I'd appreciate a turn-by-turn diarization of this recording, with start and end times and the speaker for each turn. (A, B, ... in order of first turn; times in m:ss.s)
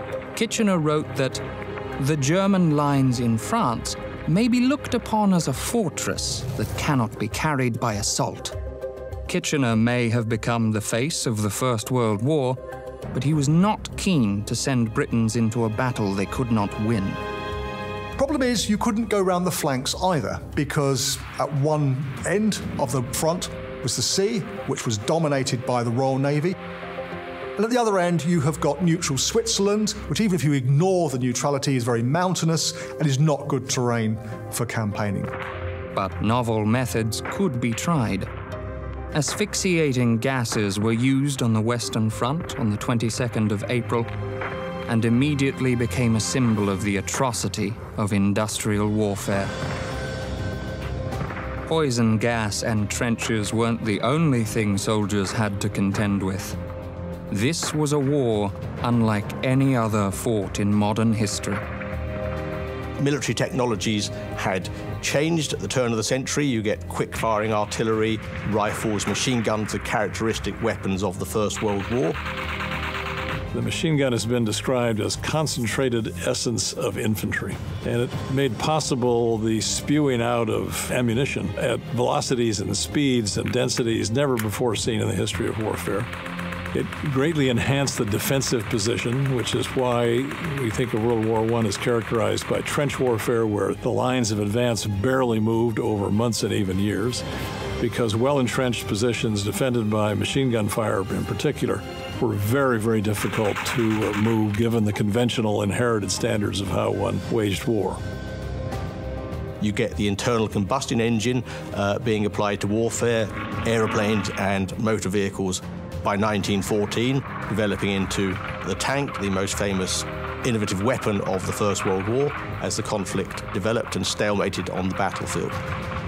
0:00.3-0:01.4 A
0:02.0-0:08.6 A
0:09.3-0:12.6 A
0:13.1-0:17.2 A
0:18.2-0:26.6 B
0:27.6-0:35.3 B
0:35.9-0:38.3 A
0:39.1-0:44.1 A
0:44.9-0:49.5 A
0:51.7-0:56.6 A
0:57.3-1:01.6 A
1:03.0-1:12.2 C
1:13.5-1:26.1 D
1:26.7-1:37.2 D
1:37.8-1:48.0 D
1:49.6-2:05.6 C